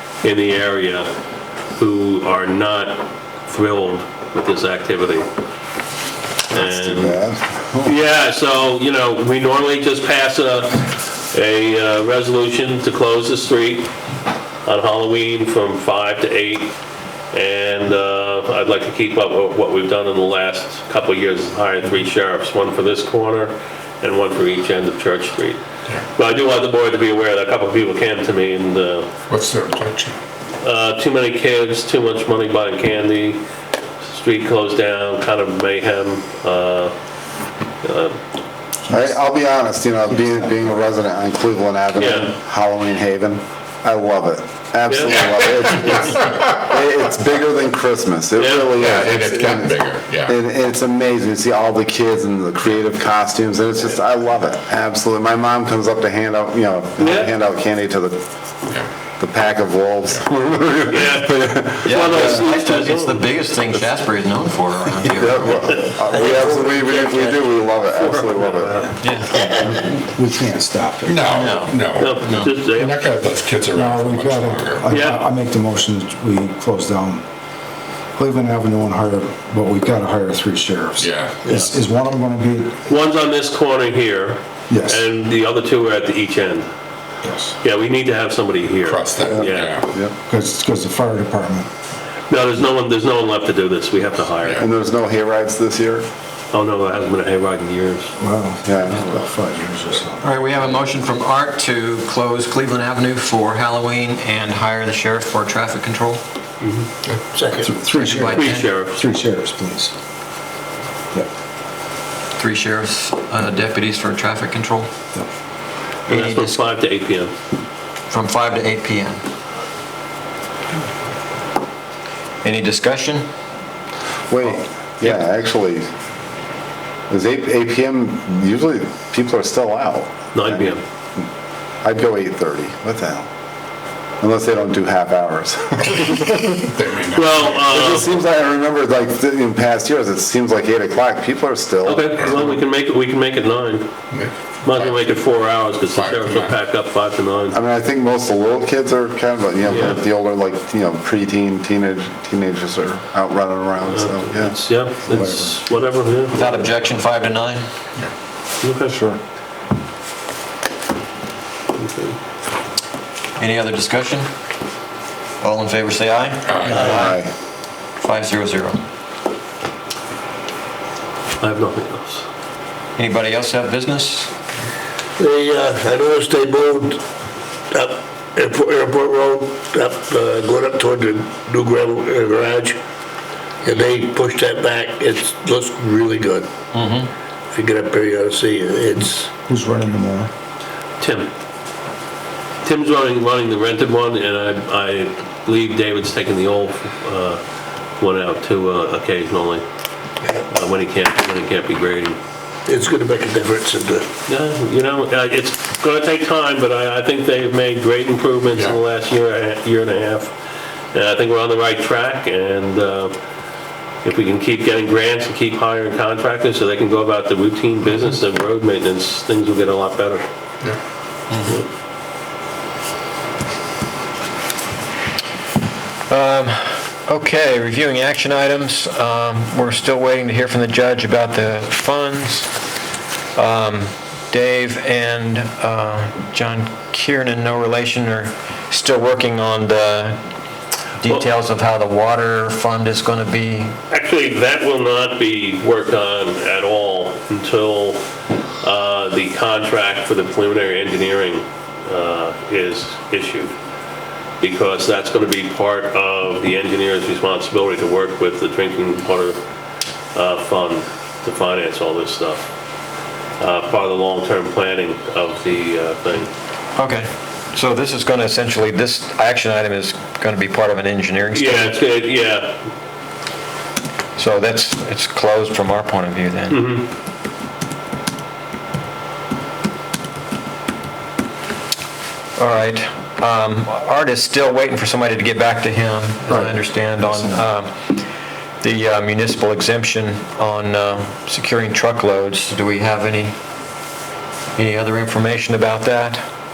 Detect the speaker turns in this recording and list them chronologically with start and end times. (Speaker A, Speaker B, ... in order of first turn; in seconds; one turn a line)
Speaker A: 0.2-1.1
Speaker A: 1.8-5.3
Speaker A: 6.5-7.2
Speaker B: 6.5-8.0
Speaker A: 7.8-13.9
Speaker A: 14.7-16.8
Speaker A: 17.3-25.6
Speaker A: 26.1-29.1
Speaker C: 29.3-30.1
Speaker A: 30.6-33.4
Speaker A: 34.0-37.0
Speaker A: 37.8-38.2
Speaker D: 38.9-39.3
Speaker B: 38.9-58.2
Speaker D: 40.1-40.7
Speaker A: 42.0-42.3
Speaker A: 44.9-45.3
Speaker C: 45.2-46.5
Speaker A: 48.4-48.9
Speaker C: 48.7-50.4
Speaker A: 57.0-57.3
Speaker B: 59.2-62.4
Speaker A: 60.9-63.2
Speaker E: 61.8-65.8
Speaker B: 65.0-68.9
Speaker F: 66.1-67.4
Speaker A: 66.9-69.1
Speaker E: 69.0-69.4
Speaker D: 69.4-71.4
Speaker C: 71.0-75.0
Speaker E: 71.3-72.5
Speaker A: 72.0-73.1
Speaker D: 73.8-77.2
Speaker A: 74.9-75.3
Speaker D: 78.2-82.8
Speaker C: 81.0-81.4
Speaker F: 81.4-81.7
Speaker A: 82.9-86.7
Speaker D: 84.7-85.0
Speaker D: 87.2-87.5
Speaker A: 87.6-89.8
Speaker C: 88.8-89.9
Speaker B: 89.3-90.2
Speaker D: 90.2-91.7
Speaker A: 92.3-94.7
Speaker C: 94.4-94.7
Speaker B: 94.6-96.0
Speaker A: 96.5-98.1
Speaker D: 98.2-100.3
Speaker B: 98.6-99.3
Speaker E: 100.2-106.2
Speaker A: 106.6-106.9
Speaker C: 107.0-107.7
Speaker F: 107.3-107.8
Speaker D: 107.7-109.9
Speaker E: 107.9-108.8
Speaker A: 108.1-109.1
Speaker E: 112.4-114.9
Speaker E: 116.1-116.6
Speaker A: 116.1-117.3
Speaker E: 118.1-119.2
Speaker E: 122.4-123.2
Speaker B: 124.3-125.9
Speaker B: 127.1-130.8
Speaker A: 130.3-130.8
Speaker B: 131.8-133.3
Speaker B: 134.2-136.3
Speaker C: 136.0-138.1
Speaker A: 137.1-138.1
Speaker B: 137.7-142.1
Speaker A: 141.8-143.9
Speaker C: 142.2-142.6
Speaker C: 144.1-146.6
Speaker A: 144.6-147.6
Speaker B: 147.5-154.6
Speaker A: 149.7-150.0
Speaker A: 153.8-156.6
Speaker D: 155.1-155.7
Speaker E: 156.3-157.7
Speaker A: 158.6-159.0
Speaker A: 161.8-162.2
Speaker E: 163.4-164.3
Speaker E: 165.4-167.2
Speaker C: 166.4-166.9
Speaker F: 166.7-167.0
Speaker B: 166.9-167.3
Speaker E: 168.0-168.8
Speaker A: 171.4-172.2
Speaker E: 172.9-174.3
Speaker F: 175.2-177.0
Speaker F: 177.7-182.8
Speaker F: 183.6-186.5
Speaker E: 186.7-187.1
Speaker F: 187.5-189.3
Speaker D: 189.5-190.3
Speaker A: 191.0-191.3
Speaker A: 192.6-197.4
Speaker A: 198.0-199.7
Speaker A: 200.4-202.2
Speaker F: 202.7-204.1
Speaker A: 204.3-210.3
Speaker C: 208.5-208.8
Speaker A: 210.9-213.2
Speaker A: 214.0-220.2
Speaker E: 221.3-221.6
Speaker E: 226.1-232.5
Speaker E: 233.3-240.2
Speaker E: 241.0-243.8
Speaker A: 243.9-248.0
Speaker A: 248.6-253.5
Speaker A: 254.4-259.4
Speaker A: 260.1-262.5
Speaker A: 263.4-266.3
Speaker E: 266.8-271.8
Speaker A: 271.3-272.6
Speaker E: 274.2-276.6
Speaker A: 276.5-276.9
Speaker E: 282.4-288.1
Speaker E: 288.6-293.4
Speaker E: 294.6-296.2